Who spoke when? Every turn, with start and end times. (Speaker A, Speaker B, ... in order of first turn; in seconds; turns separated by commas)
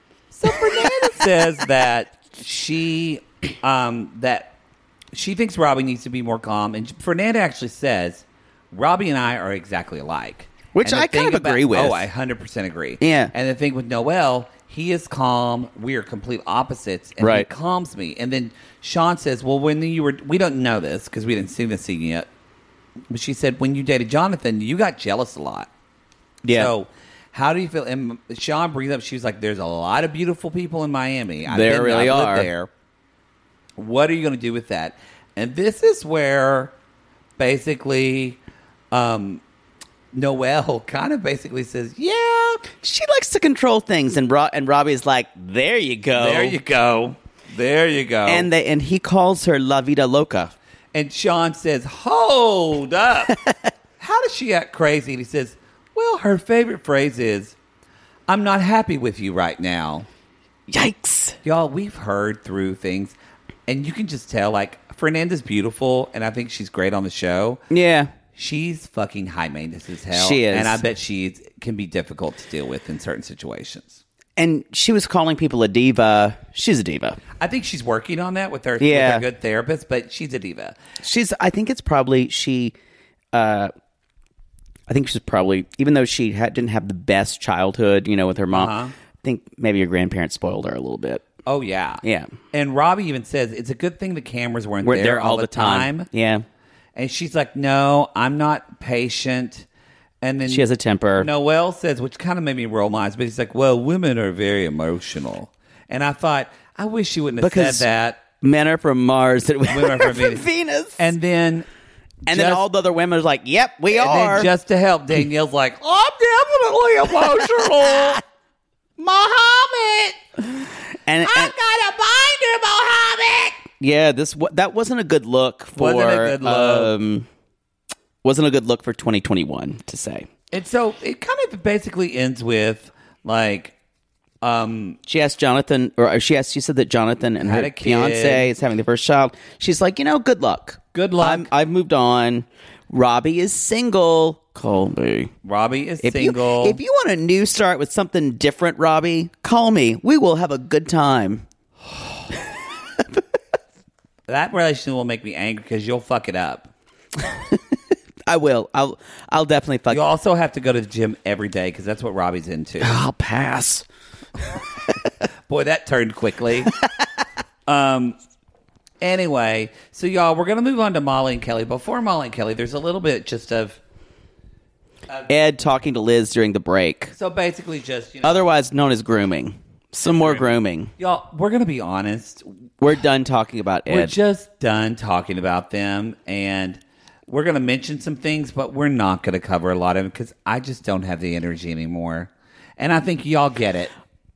Speaker A: 0.3-4.5, Speaker B: 0.5-1.1, Speaker A: 5.1-22.3, Speaker B: 10.7-12.1, Speaker B: 13.0-13.3, Speaker B: 17.2-17.5, Speaker A: 23.1-25.7, Speaker B: 26.4-26.7, Speaker A: 26.5-32.7, Speaker B: 31.4-32.5, Speaker A: 33.8-36.7, Speaker A: 37.4-38.4, Speaker A: 38.9-39.4, Speaker A: 40.1-42.6, Speaker B: 42.8-46.6, Speaker A: 46.1-48.5, Speaker B: 48.2-50.5, Speaker A: 50.9-53.4, Speaker B: 53.3-53.7, Speaker A: 54.0-57.5, Speaker A: 58.3-60.1, Speaker B: 60.7-61.4, Speaker A: 61.4-63.1, Speaker A: 63.7-67.6, Speaker B: 67.7-68.1, Speaker A: 68.3-74.0, Speaker B: 70.1-70.8, Speaker B: 74.4-77.2, Speaker A: 77.4-80.8, Speaker B: 78.8-79.2, Speaker B: 81.0-82.7, Speaker B: 83.3-83.7, Speaker B: 84.9-91.2, Speaker A: 88.5-88.9, Speaker A: 91.5-96.1, Speaker B: 92.0-92.3, Speaker B: 94.8-96.4, Speaker A: 97.0-99.7, Speaker A: 100.2-108.2, Speaker B: 100.5-101.3, Speaker B: 107.4-107.8, Speaker B: 108.4-111.1, Speaker A: 109.7-110.4, Speaker A: 111.0-111.7, Speaker B: 112.2-114.5, Speaker A: 112.3-112.6, Speaker A: 113.9-118.2, Speaker A: 119.0-120.2, Speaker B: 121.0-121.5, Speaker A: 121.2-123.7, Speaker B: 123.8-127.3, Speaker A: 125.8-127.0, Speaker B: 128.2-130.3, Speaker A: 130.5-133.7, Speaker A: 134.4-135.0, Speaker B: 135.1-145.3, Speaker A: 137.4-138.5, Speaker A: 140.9-141.5, Speaker A: 145.4-146.8, Speaker B: 146.0-151.4, Speaker A: 154.3-156.7, Speaker B: 157.2-157.6, Speaker B: 158.3-160.0, Speaker A: 159.9-162.9, Speaker B: 162.8-163.8, Speaker A: 165.5-166.7, Speaker A: 167.7-168.2, Speaker A: 169.0-173.8, Speaker B: 175.3-177.1, Speaker A: 177.1-178.4, Speaker B: 178.2-180.9, Speaker A: 180.2-182.5, Speaker B: 182.8-184.1, Speaker A: 183.9-193.9